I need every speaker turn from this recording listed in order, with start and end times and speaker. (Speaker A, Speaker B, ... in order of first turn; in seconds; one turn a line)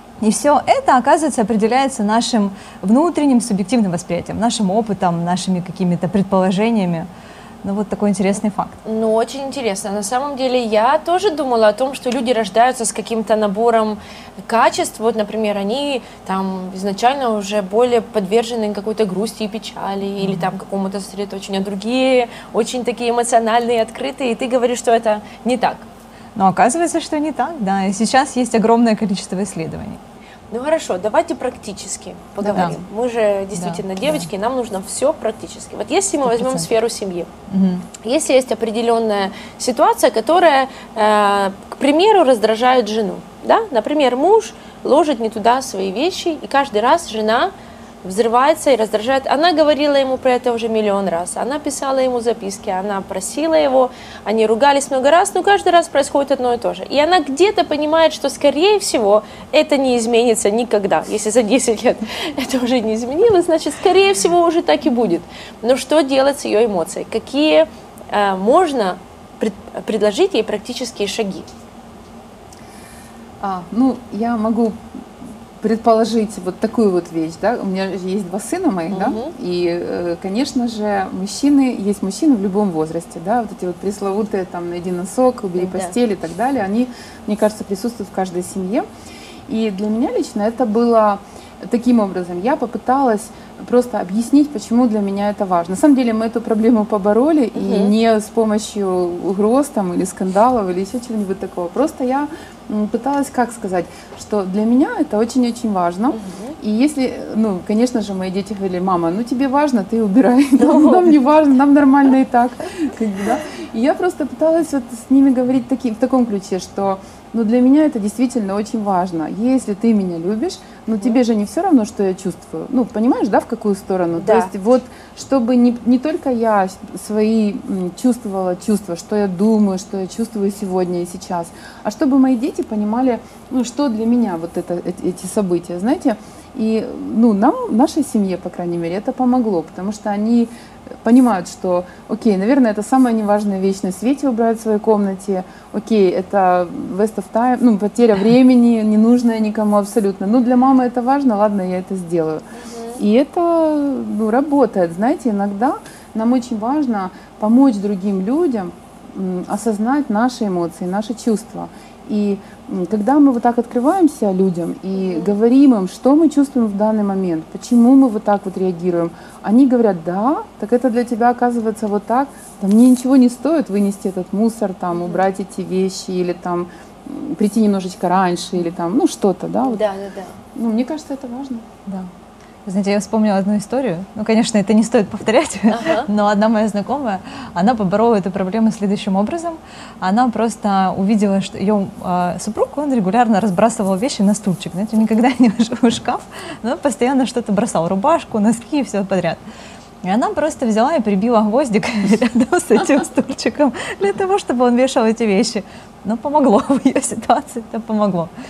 Speaker A: 0.2-7.1
Speaker A: 7.6-8.8
Speaker B: 8.8-25.9
Speaker A: 20.2-20.5
Speaker A: 26.4-30.0
Speaker B: 30.5-37.3
Speaker C: 32.4-32.7
Speaker A: 33.5-34.3
Speaker A: 36.3-36.7
Speaker A: 37.5-37.9
Speaker B: 38.0-71.5
Speaker C: 73.4-74.8
Speaker C: 75.6-88.8
Speaker B: 78.9-79.3
Speaker B: 85.6-86.0
Speaker C: 89.5-140.5
Speaker B: 97.6-97.9
Speaker B: 106.1-106.6
Speaker B: 110.6-111.1
Speaker B: 124.2-124.5
Speaker C: 141.0-152.4
Speaker B: 152.5-153.0
Speaker C: 153.0-179.8
Speaker B: 165.0-165.3
Speaker B: 174.9-175.3
Speaker B: 179.6-180.4
Speaker C: 180.6-181.7
Speaker A: 182.7-199.4
Speaker B: 185.7-186.1
Speaker A: 200.0-208.3